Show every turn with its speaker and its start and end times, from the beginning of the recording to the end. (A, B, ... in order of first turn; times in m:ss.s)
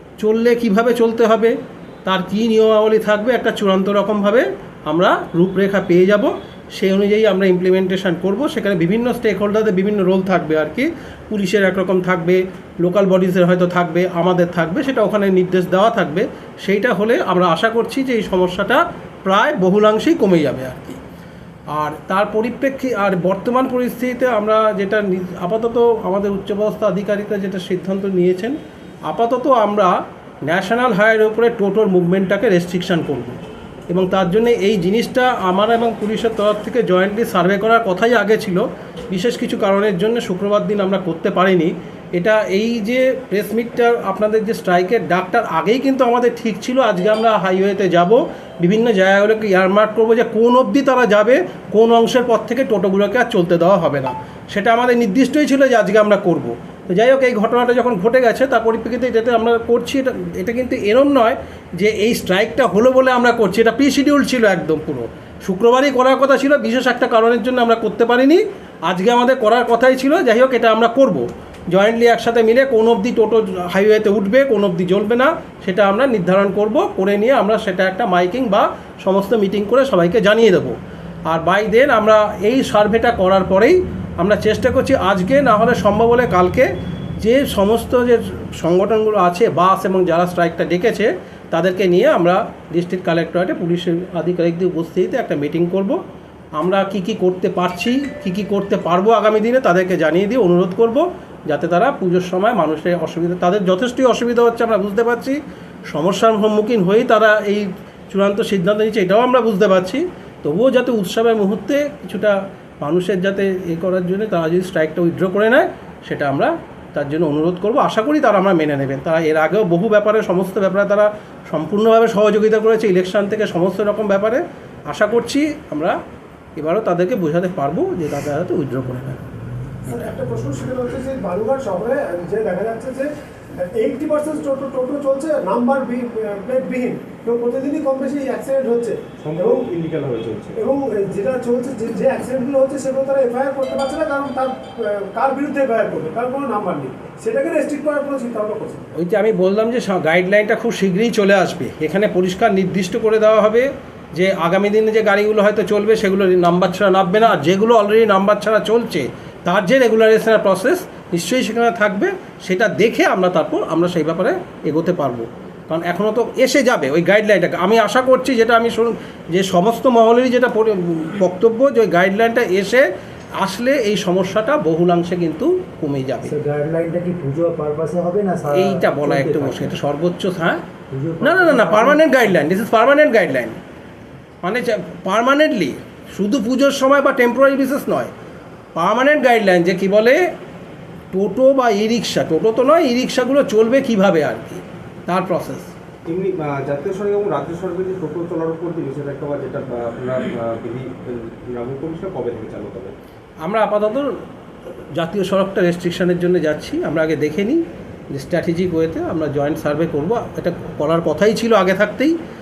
0:00.2-0:21.0 A
0:21.8-0:28.6 A
0:29.1-0:29.9 A
0:30.5-1:20.8 A
1:21.3-1:26.7 A
1:27.2-1:36.0 A
1:36.6-1:45.4 A
1:45.9-2:06.0 A
2:06.6-2:09.2 A
2:09.9-2:13.1 B
2:13.6-2:19.7 B
2:19.2-2:20.6 C
2:20.6-2:28.8 B
2:29.0-2:52.8 A
2:53.4-2:56.4 A
2:56.2-2:59.7 D
2:58.5-3:00.6 A
3:00.9-3:02.2 D
3:01.2-3:03.6 A
3:04.4-3:08.1 A
3:08.8-3:10.2 A
3:11.1-3:15.7 A
3:16.1-3:23.0 C
3:23.4-3:24.1 A
3:25.0-3:27.6 A
3:28.2-3:32.1 A